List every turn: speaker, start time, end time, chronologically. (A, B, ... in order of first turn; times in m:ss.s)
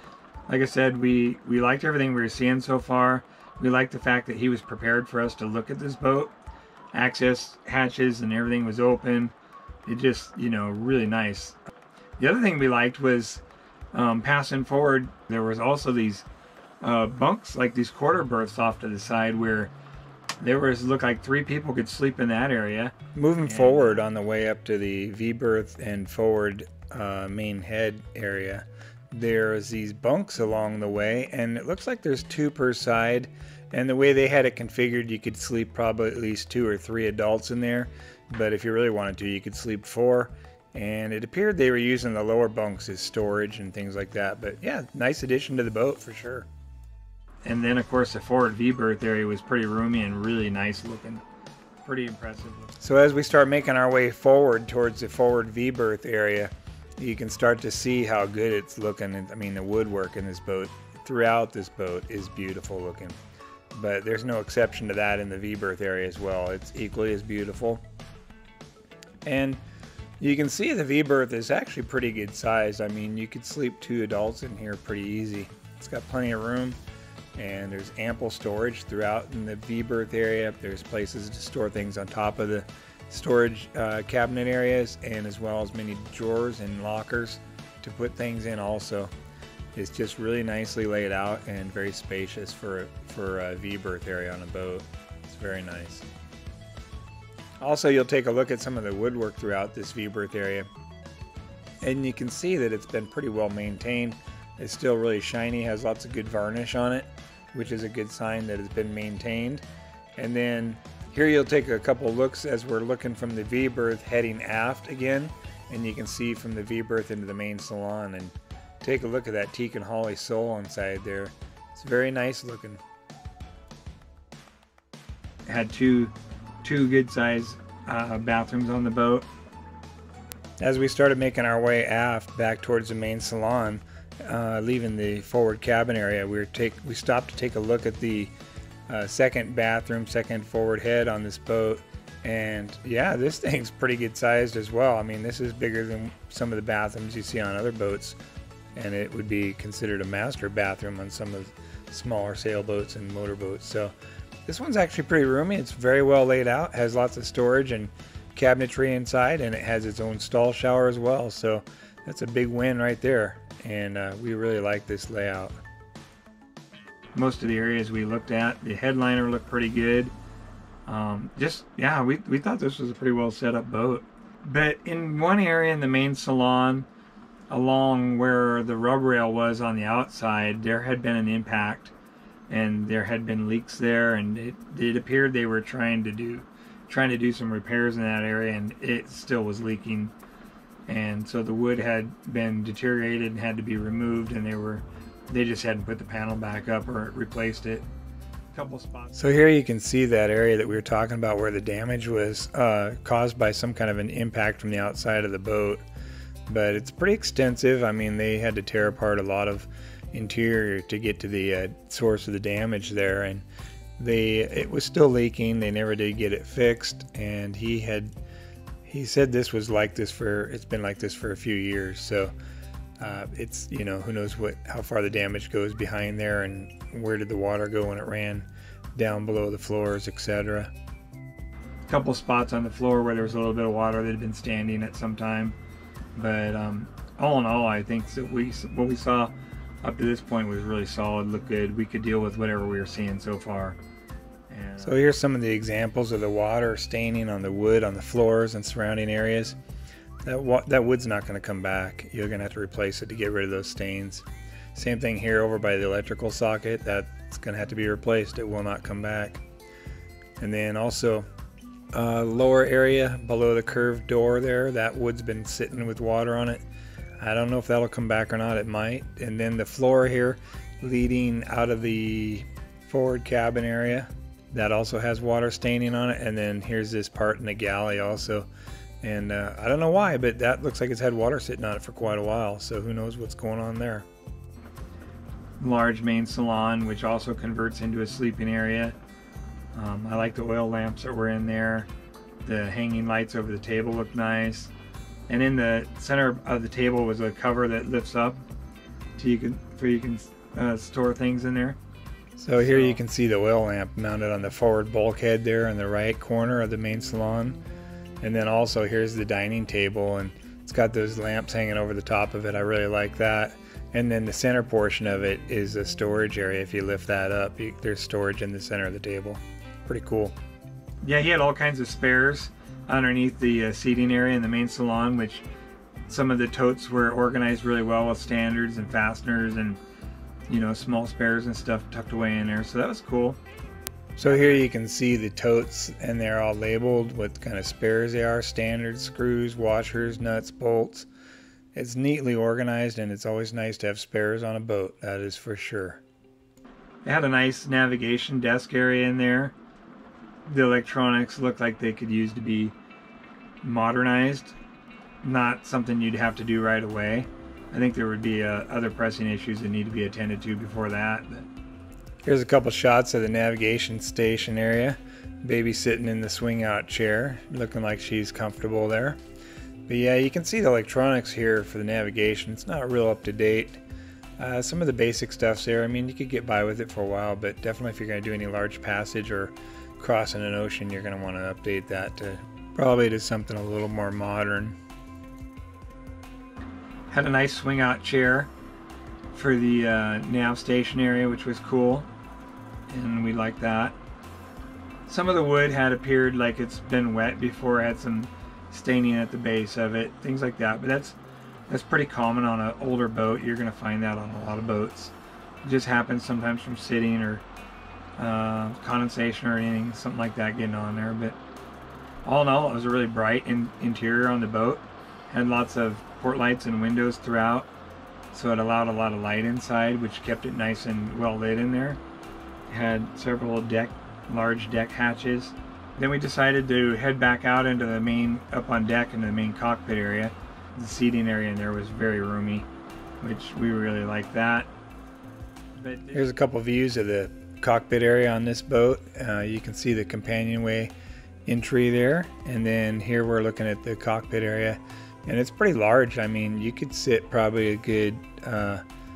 0:00.5-0:06.3 A
0:06.9-0:09.3 A
0:09.8-0:11.6 A
0:12.2-0:13.4 A
0:13.9-0:16.2 A
0:16.8-0:19.7 A
0:20.4-0:24.0 A
0:23.1-0:46.5 B
0:47.4-0:51.2 A
0:51.8-0:52.8 A
0:52.8-1:03.2 B
1:03.7-1:07.8 B
1:09.2-1:09.6 B
1:10.2-1:16.8 B
1:17.4-1:29.1 B
1:29.7-1:36.0 B
1:37.6-1:40.7 B
1:41.8-1:49.6 B
1:50.2-2:02.8 B
2:05.5-2:06.1 A
2:06.6-2:09.3 A
2:10.6-2:18.3 B
2:18.9-2:28.2 B
2:28.7-2:33.9 B
2:34.5-2:45.5 B
2:47.1-2:50.1 A
2:50.9-2:56.9 A
2:57.5-3:01.9 A
3:02.5-3:10.1 A
3:10.9-3:17.8 A
3:18.5-3:19.4 A
3:19.2-3:25.8 B
3:26.5-3:33.4 B
3:34.0-3:38.1 B
3:38.8-3:42.3 B
3:43.0-3:48.4 B
3:49.0-3:50.7 B
3:51.9-3:55.6 A
3:56.2-3:59.3 A
3:59.8-4:03.8 A
4:04.5-4:05.0 A
4:04.8-4:09.6 B
4:10.2-4:19.4 B
4:20.4-4:21.2 B
4:21.9-4:26.6 B
4:27.2-4:38.5 B
4:39.0-4:44.0 B
4:45.6-4:49.0 A
4:49.7-4:51.9 A
4:52.4-4:54.7 A
4:55.3-4:58.4 A
4:59.2-5:01.8 A
5:02.4-5:07.6 B
5:02.6-5:03.0 A
5:08.2-5:20.3 B
5:21.0-5:25.4 A
5:26.1-5:29.8 A
5:30.5-5:33.4 A
5:34.2-5:41.1 B
5:34.2-5:34.7 A
5:41.7-5:46.0 B
5:47.0-5:49.5 A
5:50.4-5:52.7 A
5:53.6-5:54.5 A
5:55.2-6:01.5 A
6:02.2-6:09.2 B
6:09.9-6:13.8 B
6:14.4-6:24.8 B
6:27.1-6:28.5 A
6:29.3-6:32.1 A
6:32.9-6:34.0 A
6:35.1-6:41.2 A
6:41.7-6:47.4 A
6:48.2-6:51.4 A
6:52.2-6:57.7 A
6:58.3-7:02.0 A
7:02.7-7:12.7 A
7:13.2-7:14.7 A
7:15.8-7:16.3 A
7:16.1-7:20.9 B
7:21.4-7:28.8 B